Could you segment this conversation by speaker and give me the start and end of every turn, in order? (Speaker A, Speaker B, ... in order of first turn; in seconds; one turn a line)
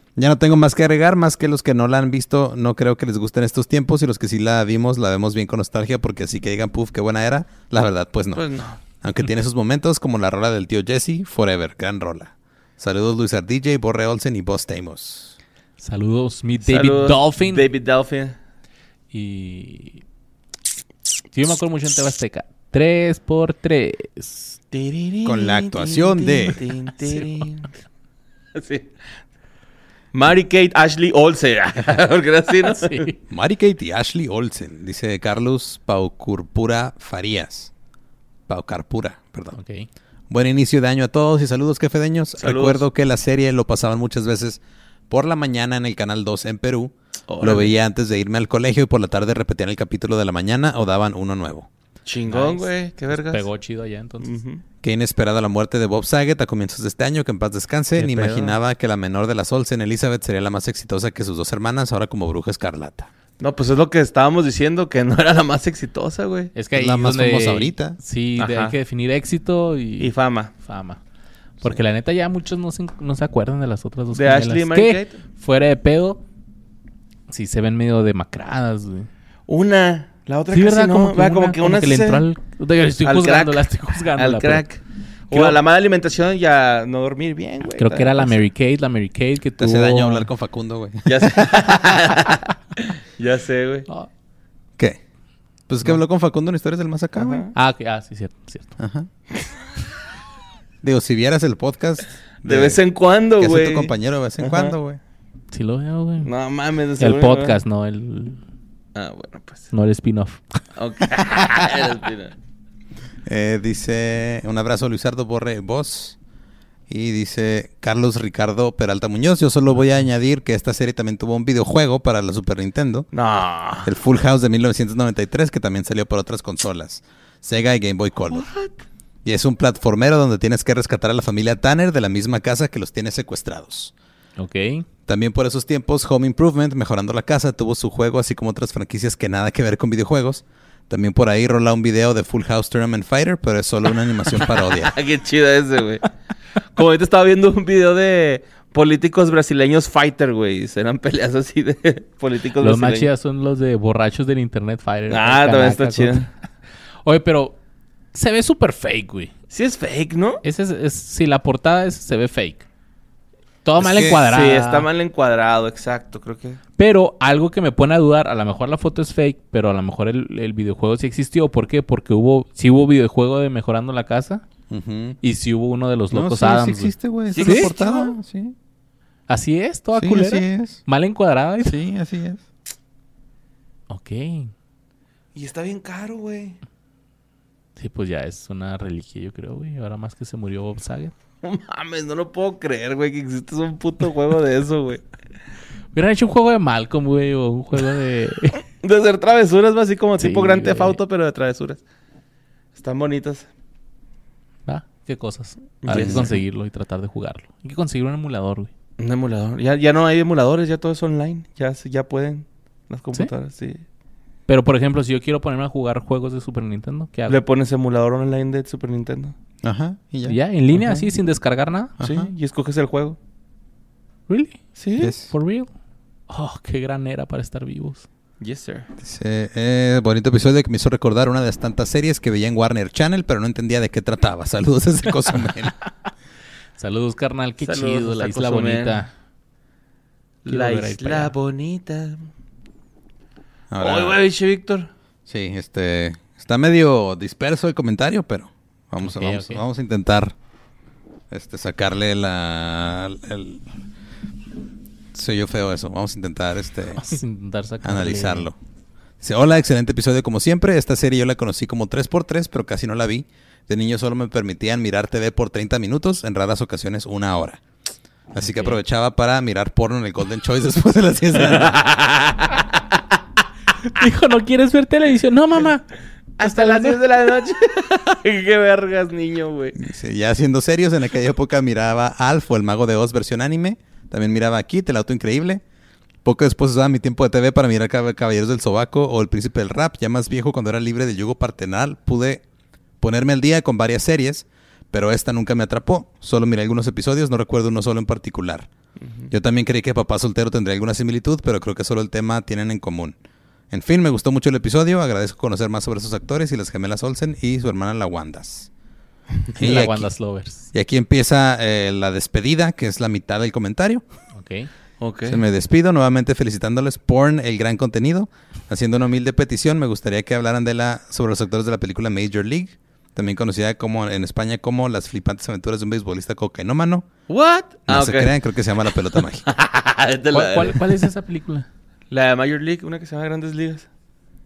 Speaker A: 0.1-8.4
Speaker B: 8.3-8.8
Speaker A: 9.0-15.4
Speaker C: 15.8-17.7
Speaker B: 16.6-18.4
Speaker C: 19.1-20.0
Speaker C: 21.3-24.6
Speaker B: 24.7-27.7
Speaker A: 25.2-26.6
Speaker B: 28.5-28.9
Speaker B: 30.1-33.1
Speaker C: 32.6-33.1
Speaker A: 33.3-37.7
Speaker A: 38.5-39.6
Speaker C: 39.5-39.9
Speaker A: 40.3-51.7
Speaker B: 42.4-42.8
Speaker B: 47.3-47.7
Speaker B: 52.0-53.5
Speaker C: 52.3-54.3
Speaker B: 54.2-54.6
Speaker A: 54.8-63.1
Speaker B: 58.2-58.5
Speaker B: 63.4-66.5
Speaker C: 66.5-71.0
Speaker A: 66.7-68.0
Speaker B: 68.4-68.8
Speaker B: 70.0-70.5
Speaker C: 71.6-76.2
Speaker B: 74.1-75.2
Speaker C: 77.3-79.1
Speaker B: 79.5-82.2
Speaker C: 80.5-84.7
Speaker B: 83.0-88.4
Speaker C: 85.3-85.6
Speaker C: 87.8-90.3
Speaker A: 89.6-91.5
Speaker B: 91.0-93.9
Speaker A: 95.7-97.5
Speaker B: 97.2-97.5
Speaker C: 97.5-98.8
Speaker A: 98.8-99.1
Speaker A: 100.8-102.8
Speaker B: 102.4-104.7
Speaker A: 103.4-105.0
Speaker C: 105.5-106.3
Speaker B: 106.2-107.6
Speaker C: 107.0-108.4
Speaker B: 108.9-109.7
Speaker C: 109.7-110.4
Speaker B: 110.8-112.3
Speaker A: 113.2-116.2
Speaker A: 116.9-123.1
Speaker B: 123.1-123.9
Speaker A: 123.8-128.5
Speaker B: 128.3-128.8
Speaker A: 129.2-133.9
Speaker C: 134.4-134.8
Speaker A: 135.1-144.9
Speaker B: 144.5-146.1
Speaker B: 146.7-153.1
Speaker C: 152.6-156.3
Speaker B: 155.1-156.3
Speaker C: 157.0-157.6
Speaker C: 158.1-159.3
Speaker B: 159.5-160.4
Speaker C: 160.4-162.6
Speaker C: 163.6-164.9
Speaker A: 163.8-164.2
Speaker B: 164.3-166.6
Speaker C: 166.8-174.4
Speaker A: 174.7-175.2
Speaker C: 175.2-177.7
Speaker A: 176.1-178.5
Speaker B: 177.3-178.2
Speaker C: 179.3-181.7
Speaker A: 179.9-180.8
Speaker A: 181.6-182.4
Speaker C: 183.9-184.5
Speaker B: 185.3-186.6
Speaker C: 187.8-191.1
Speaker B: 191.4-195.0
Speaker C: 195.9-198.6
Speaker B: 198.8-201.8
Speaker C: 200.2-201.0
Speaker B: 202.7-203.5
Speaker C: 204.7-208.7
Speaker B: 205.8-206.3
Speaker A: 205.9-206.2
Speaker B: 209.0-213.8
Speaker C: 214.5-217.4
Speaker B: 217.3-219.3
Speaker A: 219.6-220.4
Speaker C: 220.2-221.9
Speaker B: 220.7-221.1
Speaker A: 222.0-222.3
Speaker B: 222.0-223.2
Speaker C: 224.3-225.7
Speaker B: 224.8-225.1
Speaker A: 225.0-225.3
Speaker C: 226.3-228.1
Speaker B: 228.4-228.9
Speaker A: 229.0-235.7
Speaker C: 236.8-239.1
Speaker B: 237.6-239.0
Speaker B: 240.4-242.2
Speaker C: 240.4-241.3
Speaker A: 243.7-244.2
Speaker B: 243.8-244.9
Speaker A: 245.2-250.3
Speaker C: 249.0-249.6
Speaker A: 251.3-253.6
Speaker A: 255.1-257.1
Speaker C: 257.0-258.5
Speaker A: 257.8-258.6
Speaker A: 259.2-267.6
Speaker A: 268.3-271.8
Speaker C: 268.4-268.8
Speaker B: 271.4-272.6
Speaker C: 273.8-275.9
Speaker B: 276.4-279.8
Speaker C: 276.4-277.0
Speaker A: 279.8-285.6
Speaker A: 286.2-292.4
Speaker A: 293.0-298.7
Speaker B: 299.0-299.3
Speaker A: 299.3-303.1
Speaker A: 303.7-308.7
Speaker A: 309.5-310.1
Speaker C: 309.6-310.7
Speaker A: 310.7-314.0
Speaker C: 314.3-314.7
Speaker B: 315.0-315.4
Speaker A: 315.3-327.1
Speaker B: 327.3-328.3
Speaker A: 327.9-329.4
Speaker B: 329.1-330.9
Speaker C: 330.3-331.6
Speaker B: 332.1-333.9